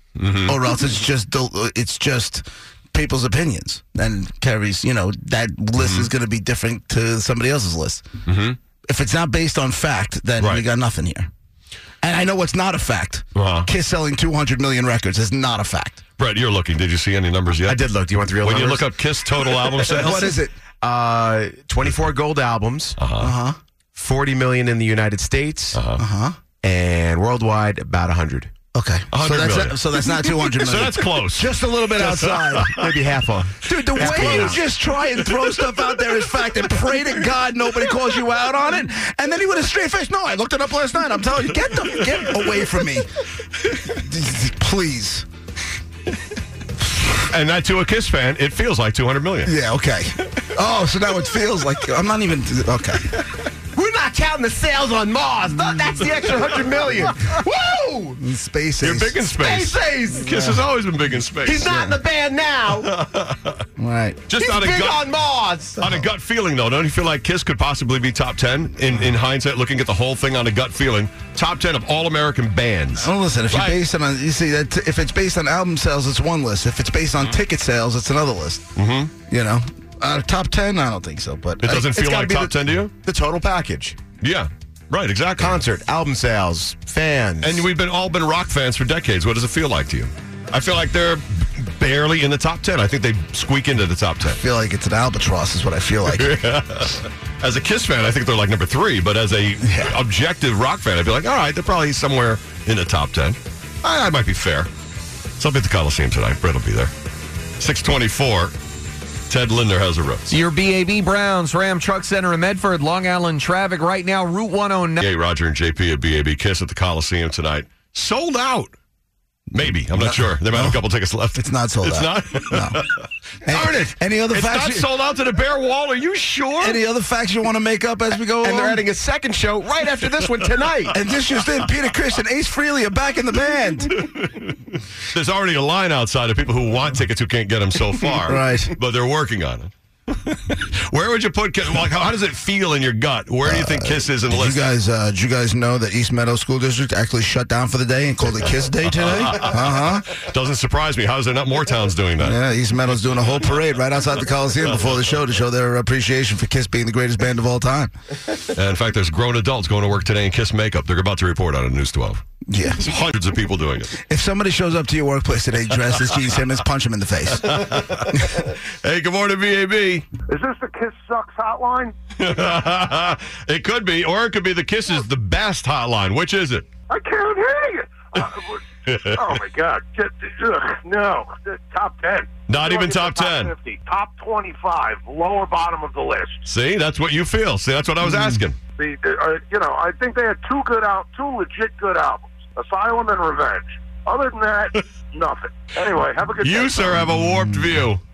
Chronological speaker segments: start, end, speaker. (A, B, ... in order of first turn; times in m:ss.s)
0:00.2-0:00.6 A
0:00.4-0:08.0 B
0:05.8-0:06.1 A
0:08.2-0:08.6 A
0:08.9-0:11.3 B
0:10.4-0:10.6 A
0:12.0-0:16.0 B
0:13.4-0:13.7 A
0:16.2-0:17.8 A
0:17.6-0:18.9 C
0:18.4-0:20.4 A
0:19.4-0:19.8 C
0:19.8-0:20.5 B
0:20.8-0:23.0 C
0:23.0-0:23.3 A
0:23.2-0:23.6 B
0:24.0-0:25.8 C
0:25.7-0:26.0 A
0:26.0-0:26.4 B
0:26.6-0:28.5 C
0:28.7-0:32.9 B
0:29.1-0:32.9 A
0:32.7-0:34.6 C
0:33.6-0:43.1 B
0:33.9-0:34.6 A
0:43.8-0:45.3 B
0:47.3-0:49.5 A
0:49.4-0:53.2 B
0:53.8-0:58.2 C
0:57.9-0:59.3 B
0:58.8-1:01.7 A
0:59.4-1:00.2 C
1:00.2-1:00.6 B
1:01.4-1:02.9 C
1:01.6-1:02.0 B
1:02.8-1:03.6 A
1:03.8-1:04.3 B
1:04.3-1:05.1 A
1:04.4-1:05.8 C
1:05.8-1:13.8 A
1:13.0-1:18.7 B
1:18.8-1:19.1 A
1:19.3-1:22.5 B
1:21.6-1:22.9 A
1:23.0-1:24.0 C
1:24.2-1:25.7 A
1:25.4-1:27.7 C
1:27.4-1:34.4 A
1:34.2-1:36.4 B
1:36.1-1:44.7 A
1:39.6-1:40.0 B
1:45.4-1:46.9 A
1:47.6-1:48.5 A
1:49.3-1:50.4 A
1:50.3-1:55.1 D
1:55.0-1:58.7 A
1:59.5-2:06.8 A
1:59.6-2:00.8 B
2:01.3-2:02.8 B
2:03.4-2:04.9 B
2:06.6-2:08.8 B
2:08.4-2:11.0 C
2:10.9-2:14.0 B
2:14.0-2:24.7 A
2:18.2-2:18.7 B
2:23.4-2:30.2 B
2:28.9-2:32.4 A
2:32.2-2:37.9 B
2:38.5-2:42.2 A
2:42.5-2:42.9 B
2:42.8-2:44.0 A
2:44.0-2:47.6 B
2:47.4-2:50.1 A
2:50.3-2:52.0 E
2:52.2-2:56.7 A
2:56.9-3:06.4 E
2:58.9-2:59.3 A
3:02.5-3:03.5 A
3:06.4-3:08.6 A
3:08.8-3:17.1 E
3:16.4-3:18.0 A